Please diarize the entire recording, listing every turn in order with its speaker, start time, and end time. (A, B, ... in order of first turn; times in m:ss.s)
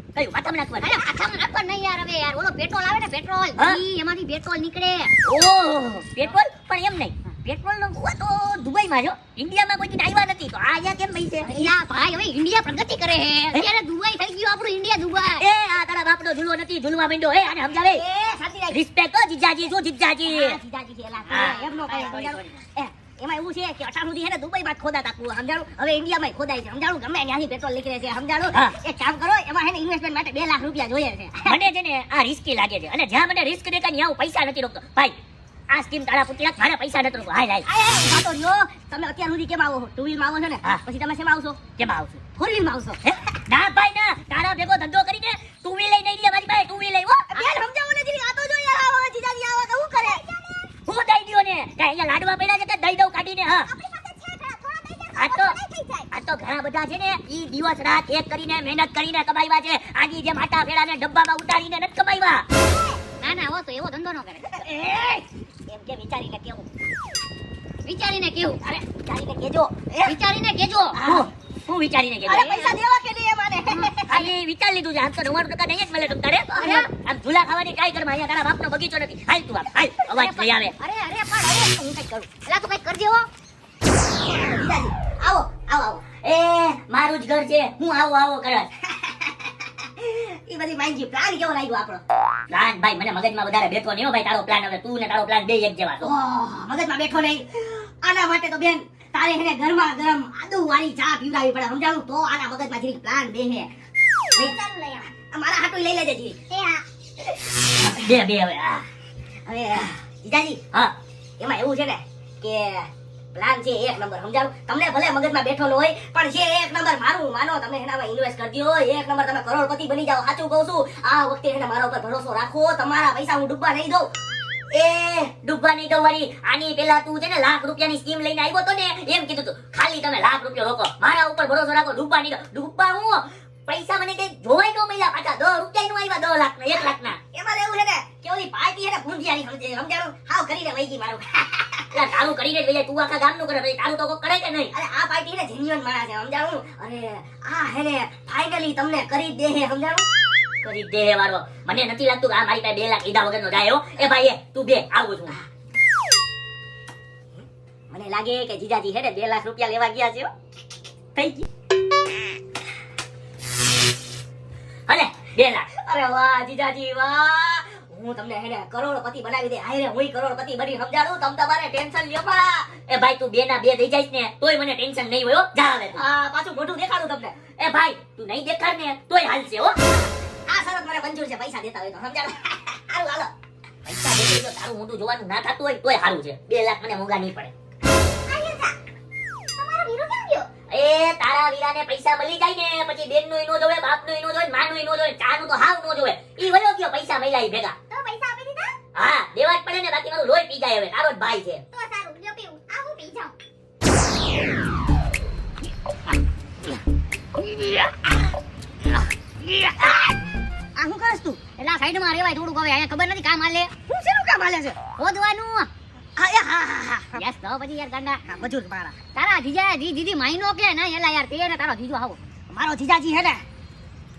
0:00.2-0:01.0 A
0:00.8-0:05.1 B
0:05.2-0:11.5 A
0:11.5-0:11.7 C
0:11.5-0:15.4 B
0:15.4-0:18.0 A
0:17.9-0:18.8 C
0:18.7-0:20.6 A
0:20.2-0:31.6 C
0:21.3-0:22.4 A
0:21.3-0:22.4 B
0:31.4-0:35.2 A
0:35.7-0:37.7 A
0:37.7-0:41.6 C
0:41.8-0:42.2 A
0:42.4-0:43.0 C
0:43.1-0:47.3 A
0:47.3-0:50.2 C
0:50.0-0:50.8 D
0:50.9-0:53.7 A
0:53.7-0:56.1 D
0:55.2-0:55.6 A
0:56.1-1:02.5 A
1:02.6-1:03.0 D
1:03.2-1:04.6 B
1:04.6-1:06.7 C
1:07.8-1:08.6 B
1:08.7-1:10.2 C
1:10.0-1:11.0 B
1:10.9-1:11.3 C
1:11.0-1:12.7 A
1:12.3-1:14.3 C
1:13.6-1:13.9 B
1:14.0-1:20.8 A
1:16.6-1:16.9 B
1:20.1-1:23.3 B
1:24.2-1:26.0 C
1:26.2-1:28.7 A
1:28.9-1:32.0 C
1:32.5-1:36.1 A
1:36.0-1:43.7 C
1:44.3-1:45.1 D
1:45.2-1:46.4 C
1:46.5-1:46.8 D
1:47.8-1:48.9 A
1:49.5-1:50.6 C
1:51.4-2:04.1 C
2:04.7-2:05.2 C
2:05.2-2:17.2 A
2:16.7-2:22.0 C
2:21.9-2:24.7 A
2:24.7-2:30.0 C
2:30.6-2:35.4 A
2:37.4-2:40.3 C
2:41.2-2:41.4 A
2:44.9-2:45.7 A
2:45.8-2:52.7 C
2:52.9-2:56.0 A
2:56.0-2:57.4 C
2:57.6-2:59.8 A
2:59.9-3:03.3 C
3:03.9-3:07.5 A
3:08.3-3:08.8 D
3:09.6-3:10.5 D
3:10.7-3:17.8 A
3:17.9-3:18.7 D
3:19.0-3:21.6 A
3:21.7-3:23.4 D
3:29.6-3:30.2 C
3:30.8-3:31.4 C
3:31.6-3:33.7 B
3:33.9-3:34.8 C
3:35.0-3:35.7 B
3:36.2-3:37.2 C
3:37.2-3:38.2 B
3:38.3-3:39.0 C
3:39.2-3:42.2 B
3:42.5-3:43.4 C